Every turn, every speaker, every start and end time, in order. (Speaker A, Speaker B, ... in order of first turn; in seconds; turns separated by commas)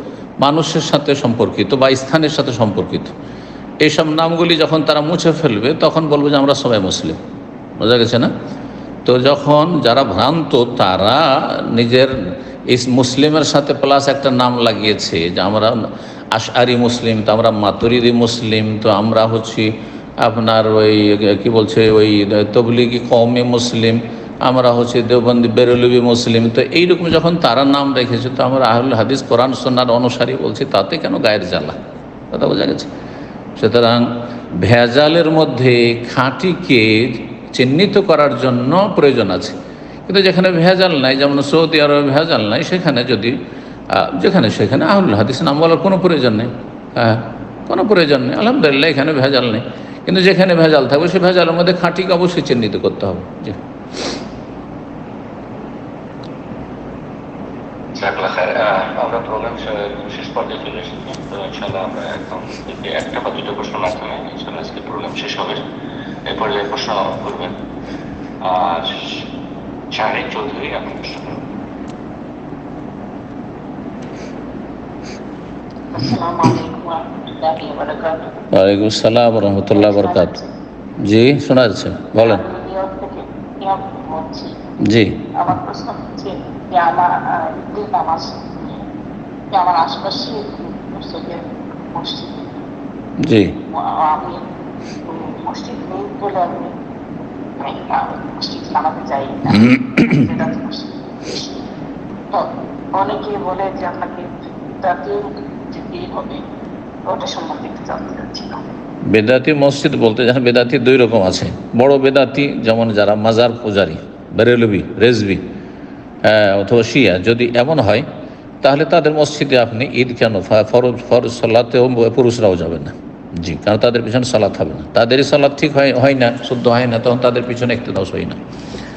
Speaker A: 0.4-3.1, Speaker A: 3.8-7.2, Speaker A: 7.8-8.3, Speaker A: 9.1-12.1, Speaker A: 12.7-15.7, Speaker A: 16.3-19.7, Speaker A: 20.2-31.8, Speaker A: 32.3-32.9, Speaker A: 33.6-39.6, Speaker A: 40.1-43.4, Speaker A: 43.9-53.6, Speaker B: 58.0-65.6, Speaker B: 66.3-67.5, Speaker B: 68.4-69.2, Speaker B: 69.9-71.5, Speaker C: 75.9-78.3, Speaker A: 78.5-80.3, Speaker C: 79.8-80.5, Speaker A: 81.0-82.4, Speaker C: 82.2-84.5, Speaker A: 84.8-85.2, Speaker C: 85.4-88.8, Speaker C: 89.5-91.4, Speaker C: 91.9-92.6, Speaker A: 93.2-93.5, Speaker C: 93.7-94.4, Speaker C: 95.1-96.7, Speaker C: 97.6-101.6, Speaker C: 102.3-104.3, Speaker C: 104.8-106.4, Speaker C: 107.1-108.6, Speaker A: 109.1-115.5, Speaker A: 116.2-118.1, Speaker A: 118.6-128.4